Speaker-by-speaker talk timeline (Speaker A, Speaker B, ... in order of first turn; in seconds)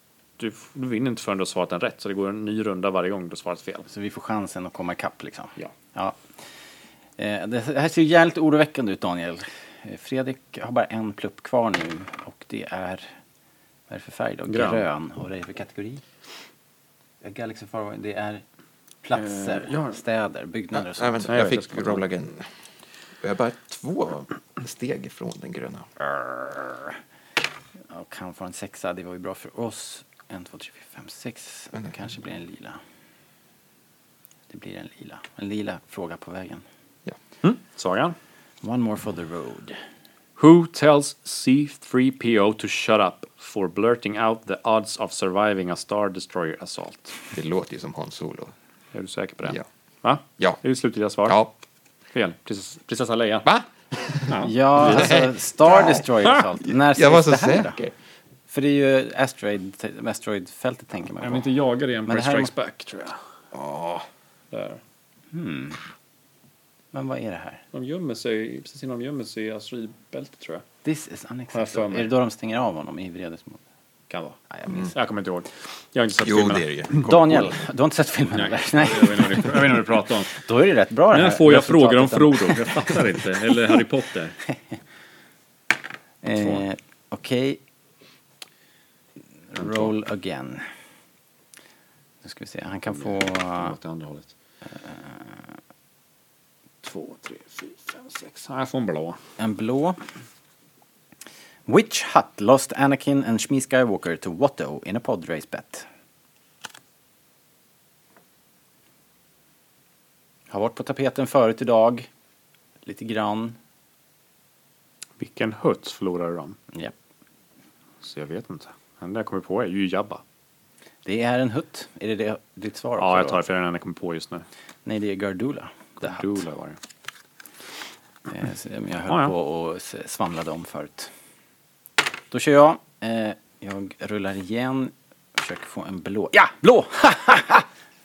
Speaker A: 0.4-3.9, 14.5-14.8, 19.1-20.0, 21.2-22.0, 37.4-38.1, 40.4-47.1, 48.9-51.4, 52.1-53.5, 54.3-55.2, 61.2-63.2, 64.5-64.8, 67.7-70.6, 71.5-72.1, 74.1-77.1, 78.3-80.3, 81.1-84.4, 86.4-86.6, 89.6-89.9, 92.9-94.3, 96.8-99.2, 115.2-116.6, 118.0-120.2, 123.0-124.4, 126.0-126.8
Speaker B: 3.9-6.2, 7.2-13.1, 13.9-16.0, 17.2-18.4, 19.0-21.3, 26.2-26.9, 27.9-32.8, 34.5-36.6, 38.6-39.8, 54.4-57.8, 58.5-61.5, 62.1-62.5, 65.3-65.8, 66.9-67.6, 70.8-73.6, 74.5-74.9, 77.0-79.7, 80.3-82.9, 86.2-87.6, 89.5-90.7, 92.2-93.8, 99.4-100.0, 101.7-105.8, 110.5-112.1, 112.8-113.6, 121.0-123.4, 124.8-126.4, 128.3-131.1, 132.3-137.7
Speaker C: 20.7-22.5, 23.2-25.9, 47.3-48.5, 51.2-51.5, 53.4-56.1, 56.6-57.9, 63.5-64.0, 76.2-77.5